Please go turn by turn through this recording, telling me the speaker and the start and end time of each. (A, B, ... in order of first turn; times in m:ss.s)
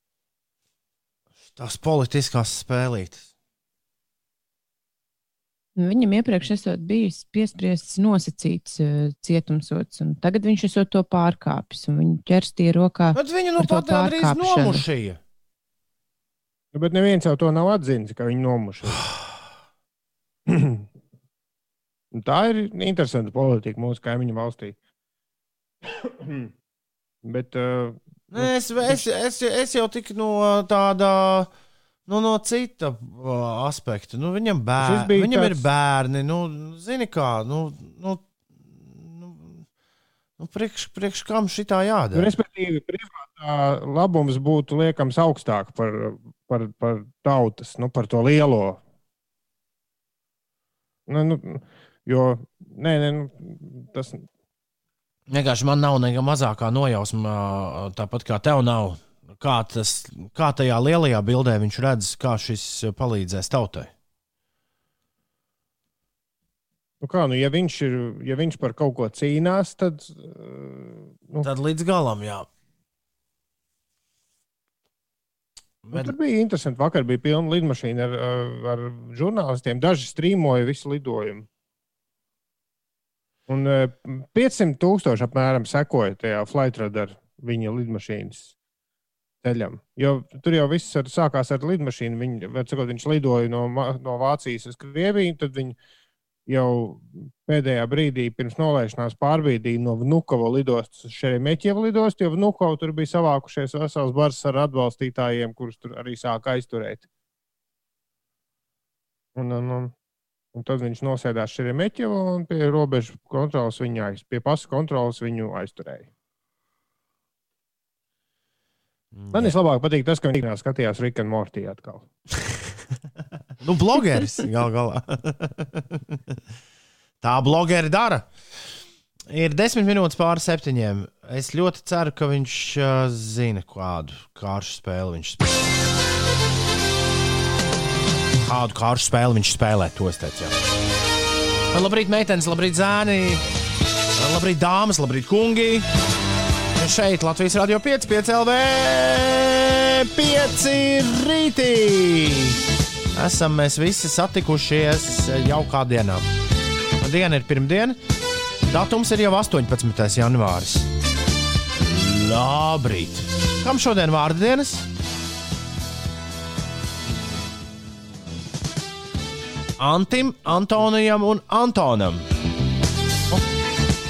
0:01.5-0:03.2 A
0:05.8-0:14.8 B
0:13.1-0:15.2 A
0:16.7-0:19.1 C
0:20.5-0:20.9 C
0:22.1-0:24.8 C
0:25.8-0:26.5 C
0:27.2-0:29.0 C
0:28.3-0:31.5 A
0:32.1-0:38.2 A
0:34.8-0:35.6 C
0:38.7-0:39.6 A
0:40.4-0:42.3 A
0:42.1-0:48.8 C
0:51.1-0:54.2 C
0:55.3-1:03.9 A
1:07.0-1:11.5 C
1:11.4-1:12.5 A
1:15.8-1:16.1 A
1:15.9-1:21.5 C
1:23.5-1:28.5 C
1:29.4-1:35.8 C
1:36.5-1:47.0 C
1:49.3-1:49.9 C
1:50.5-1:56.1 C
1:59.1-1:59.6 A
1:59.3-2:02.1 C
2:03.6-2:06.0 A
2:07.2-2:08.3 A
2:09.3-2:15.6 A
2:18.4-2:20.5 A
2:21.7-2:23.4 A
2:24.2-2:25.8 A
2:26.8-2:32.6 A
2:33.1-2:36.2 A
2:37.0-2:38.0 A
2:38.7-2:40.9 A
2:41.8-2:44.8 A
2:49.8-2:52.2 A